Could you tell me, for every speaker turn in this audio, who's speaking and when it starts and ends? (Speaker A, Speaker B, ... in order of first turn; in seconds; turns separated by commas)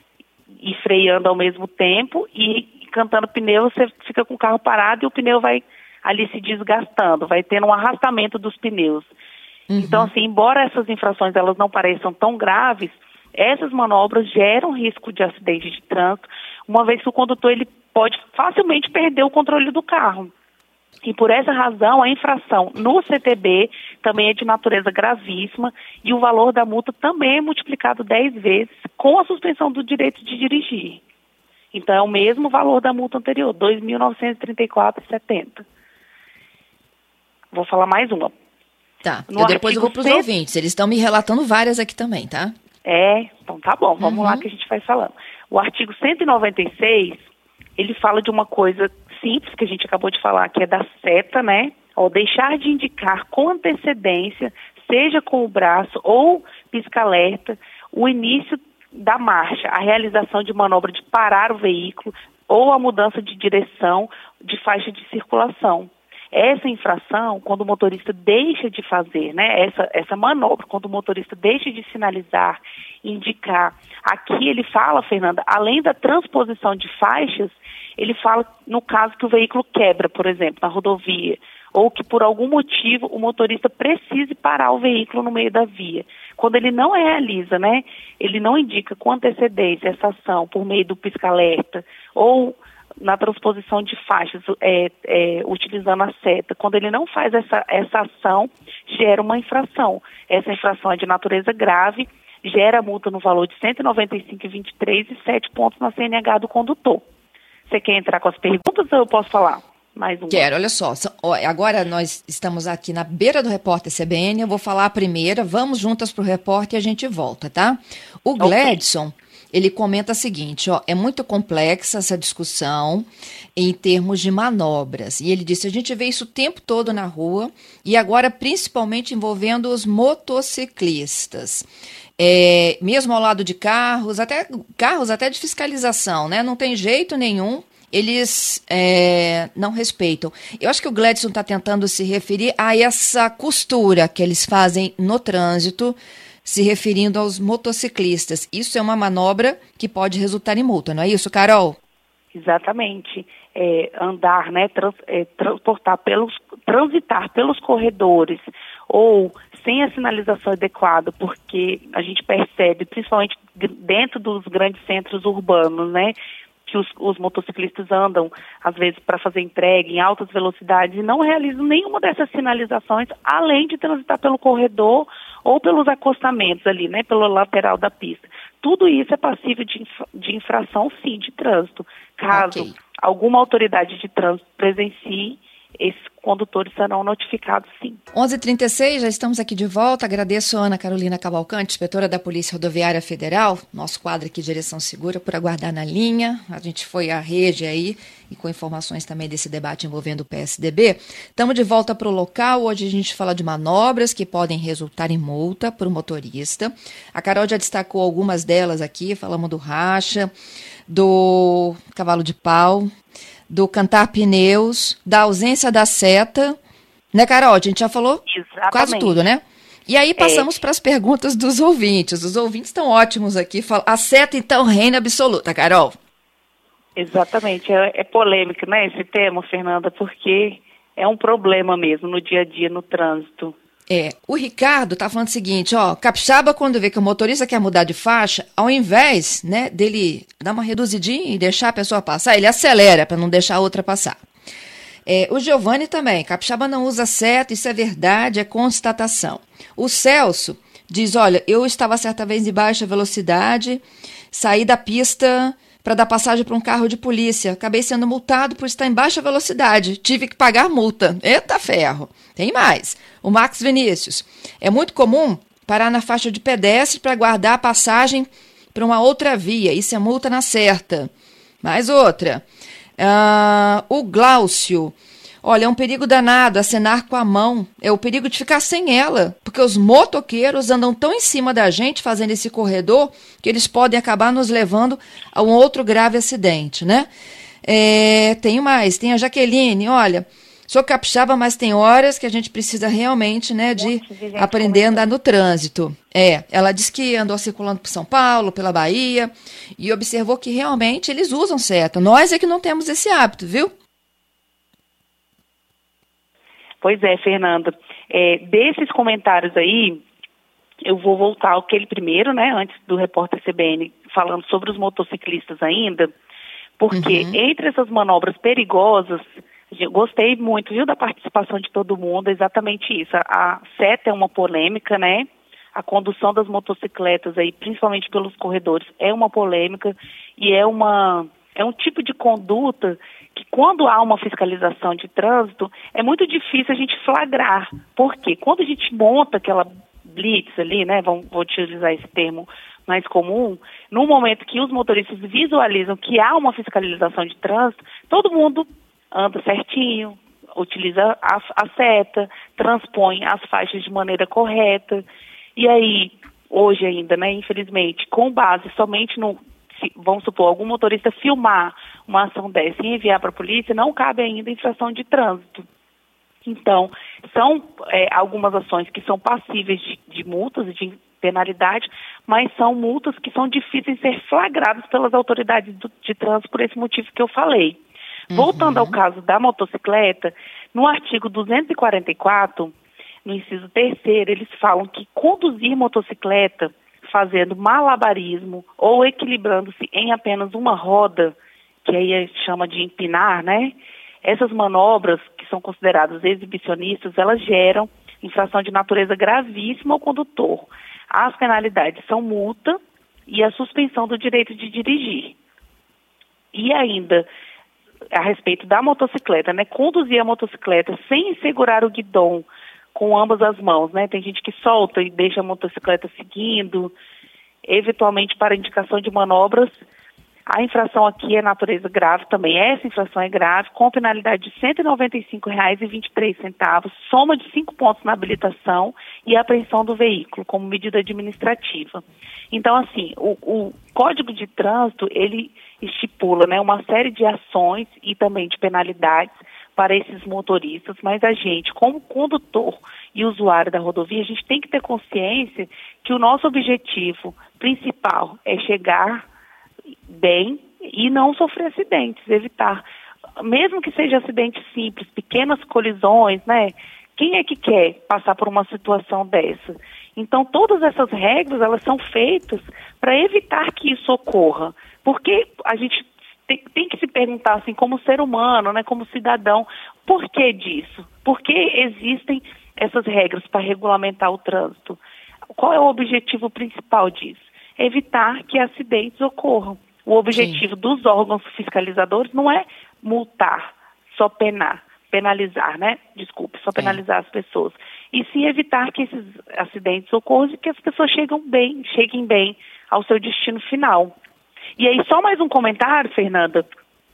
Speaker A: 0.6-9.1, Speaker B: 9.7-10.1, Speaker A: 9.8-20.3, Speaker A: 21.0-31.0, Speaker A: 31.7-35.6, Speaker A: 37.5-38.3, Speaker B: 39.0-42.5, Speaker A: 39.3-40.2, Speaker A: 42.8-47.2, Speaker B: 44.0-44.4, Speaker A: 47.8-107.0, Speaker A: 107.7-110.4, Speaker B: 110.3-131.7, Speaker A: 118.4-118.8, Speaker B: 132.2-151.8, Speaker A: 152.3-166.1, Speaker A: 166.7-188.0, Speaker B: 182.3-182.7, Speaker B: 188.1-210.3, Speaker B: 210.9-212.9, Speaker B: 213.5-216.6, Speaker B: 217.1-218.2, Speaker A: 218.3-219.2, Speaker B: 218.7-225.9, Speaker A: 220.2-220.5, Speaker A: 226.9-233.5, Speaker B: 233.9-244.2, Speaker B: 245.1-271.1, Speaker B: 271.6-272.4, Speaker B: 273.0-287.1, Speaker B: 287.6-303.7, Speaker A: 293.8-295.1, Speaker A: 306.8-310.0, Speaker A: 310.8-316.1, Speaker A: 316.8-355.0, Speaker B: 316.9-317.3, Speaker A: 355.6-365.6, Speaker A: 366.4-377.8, Speaker B: 378.3-379.0, Speaker A: 378.3-382.7, Speaker A: 383.2-405.4, Speaker A: 406.5-407.2, Speaker A: 408.1-416.9, Speaker A: 417.7-419.8, Speaker A: 420.5-449.2, Speaker A: 450.1-452.8, Speaker A: 453.4-475.0, Speaker A: 475.5-494.1, Speaker B: 480.3-480.6, Speaker A: 494.8-496.6